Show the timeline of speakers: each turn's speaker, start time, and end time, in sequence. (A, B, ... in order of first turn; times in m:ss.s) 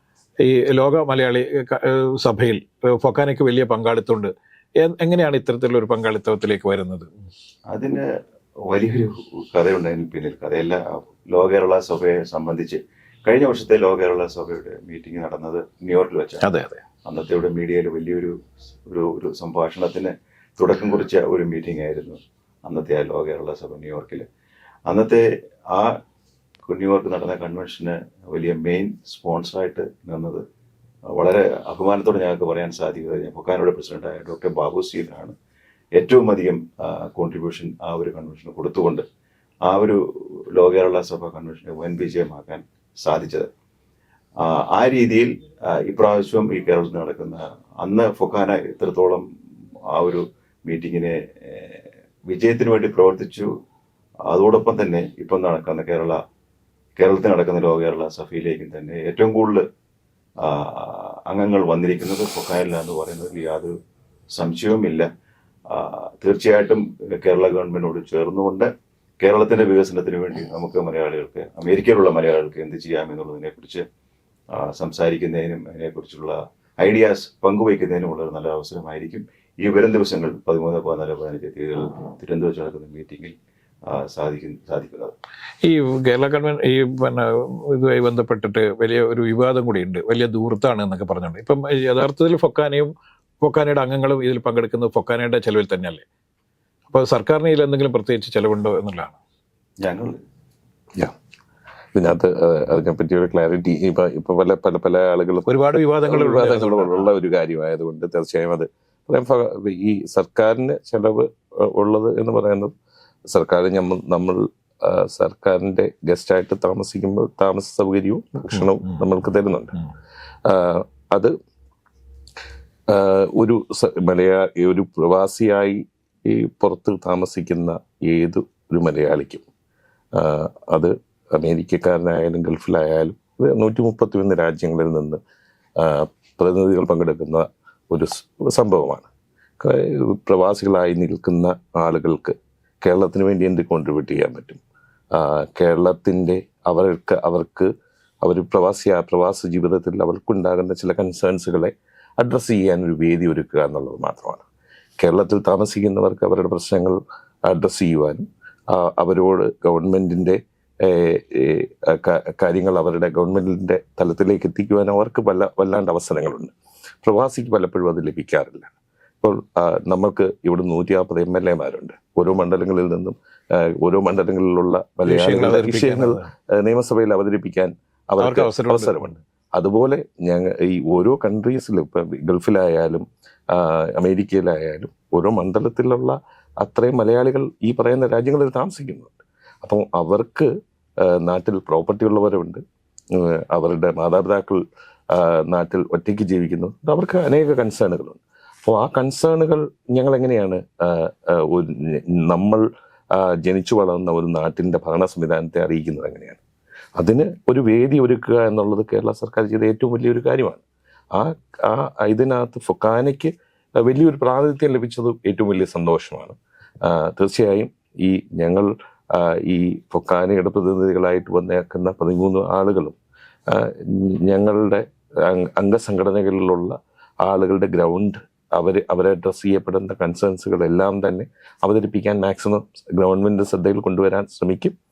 0:00.4-0:07.1 A
0:07.7-0:08.1 B
0:08.6-0:16.4 B
0:16.4-0:16.8 A
0:17.0-0:24.2 B
0:24.9-0:26.0 B
0:26.6-0:30.4 B
0:31.1-0:35.3 B
0:36.0-0:39.0 B
0:39.6-0:43.5 B
0:44.4-0:49.2 B
0:49.9-0:53.5 B
0:54.3-0:56.2 B
0:57.0-0:59.6 B
1:00.4-1:03.7 B
1:04.3-1:05.1 B
1:05.7-1:13.8 B
1:14.5-1:25.1 B
1:25.6-1:36.0 A
1:36.9-1:39.2 A
1:39.8-1:40.2 B
1:41.9-1:52.7 C
1:45.5-1:47.1 A
1:53.3-1:59.7 C
1:58.5-1:59.0 A
2:00.4-2:01.3 C
2:02.9-2:09.4 C
2:10.1-2:15.2 C
2:15.8-2:19.1 C
2:19.6-2:27.7 C
2:28.2-2:34.5 C
2:35.0-3:10.5 C
2:55.0-2:56.3 A
2:58.2-2:59.1 A
3:11.0-3:12.6 C
3:13.1-3:26.4 C
3:27.0-3:43.0 C
3:43.5-3:54.8 C